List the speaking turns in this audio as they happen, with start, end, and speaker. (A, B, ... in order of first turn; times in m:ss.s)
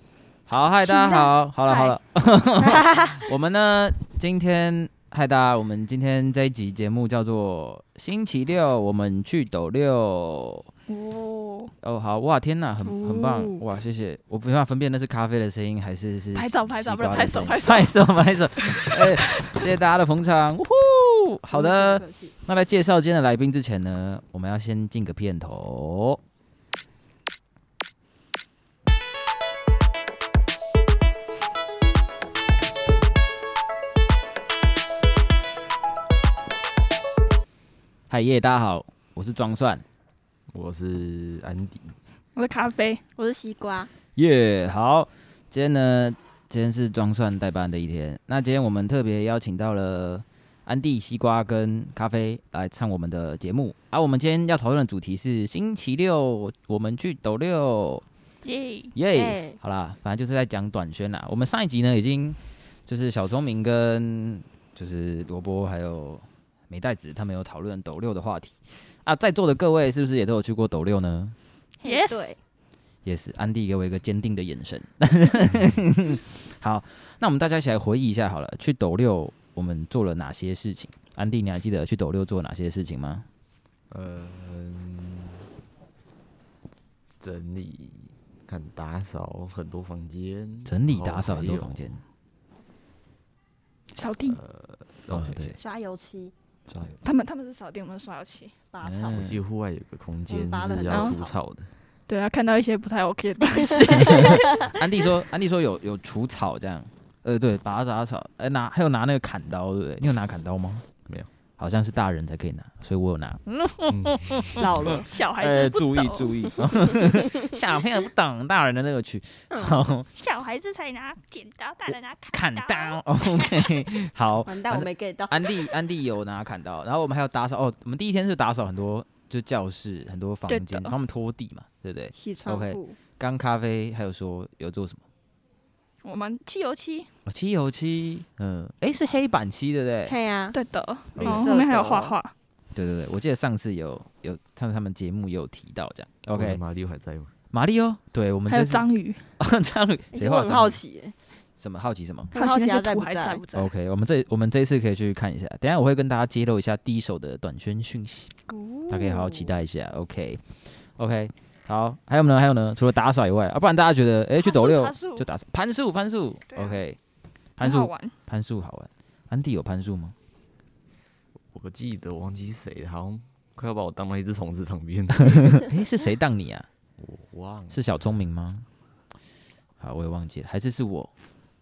0:00.5-0:10.7 A
0:00.8-0:02.0 B
0:02.6-0:03.3 B
0:10.9-0:11.7 C
0:11.8-0:26.2 A
0:12.9-0:13.6 B
0:16.3-0:17.9 C
0:18.6-0:19.5 C
0:21.5-0:22.3 B
0:38.1-0:39.8 A
0:40.5-0:42.0 D
0:42.3-0:43.0 C
0:43.2-0:43.9 B
0:44.2-0:58.0 A
0:58.4-0:58.9 C
0:58.9-1:11.4 A
0:59.1-0:59.6 B
1:11.8-1:12.4 B
1:11.8-1:12.4 C
1:13.0-1:23.2 A
1:23.9-1:25.4 D
1:27.2-1:32.0 D
1:30.6-1:32.0 A
1:33.9-1:34.4 C
1:34.2-1:35.6 D
1:35.1-1:35.6 A
1:35.6-1:36.3 B
1:36.7-1:37.0 A
1:37.0-1:38.5 C
1:38.7-1:39.2 B
1:38.8-1:39.4 A
1:39.1-1:41.7 D
1:40.3-1:41.3 B
1:40.8-1:41.2 C
1:42.1-1:44.7 C
1:43.5-1:44.7 B
1:44.1-1:50.8 A
1:51.6-2:00.1 A
1:53.9-1:54.6 D
1:54.6-1:55.1 B
1:55.0-1:56.3 C
1:57.1-1:57.5 B
1:59.5-1:59.8 B
2:00.1-2:03.7 C
2:02.3-2:15.0 A
2:04.4-2:05.5 B
2:10.5-2:11.0 C
2:12.1-2:13.0 B
2:16.0-2:17.1 C
2:17.2-2:20.2 A
2:20.1-2:20.6 B
2:20.5-2:22.3 C
2:21.2-2:21.5 A
2:21.2-2:22.2 B
2:22.7-2:26.6 A
2:26.3-2:27.3 D
2:27.5-2:28.8 A
2:28.5-2:29.3 C
2:29.4-2:30.8 A
2:30.1-2:31.2 B
2:31.6-2:32.3 A
2:32.3-2:33.4 B
2:32.3-2:33.7 C
2:33.5-2:38.3 A
2:38.5-2:39.6 B
2:38.9-2:47.0 A
2:44.4-2:45.2 C
2:46.5-2:46.8 C
2:47.6-2:50.2 A
2:47.6-2:48.1 C
2:51.5-2:55.7 D
2:55.3-2:56.7 A
2:57.0-2:57.8 D
2:57.7-2:58.7 A
2:59.8-3:01.1 A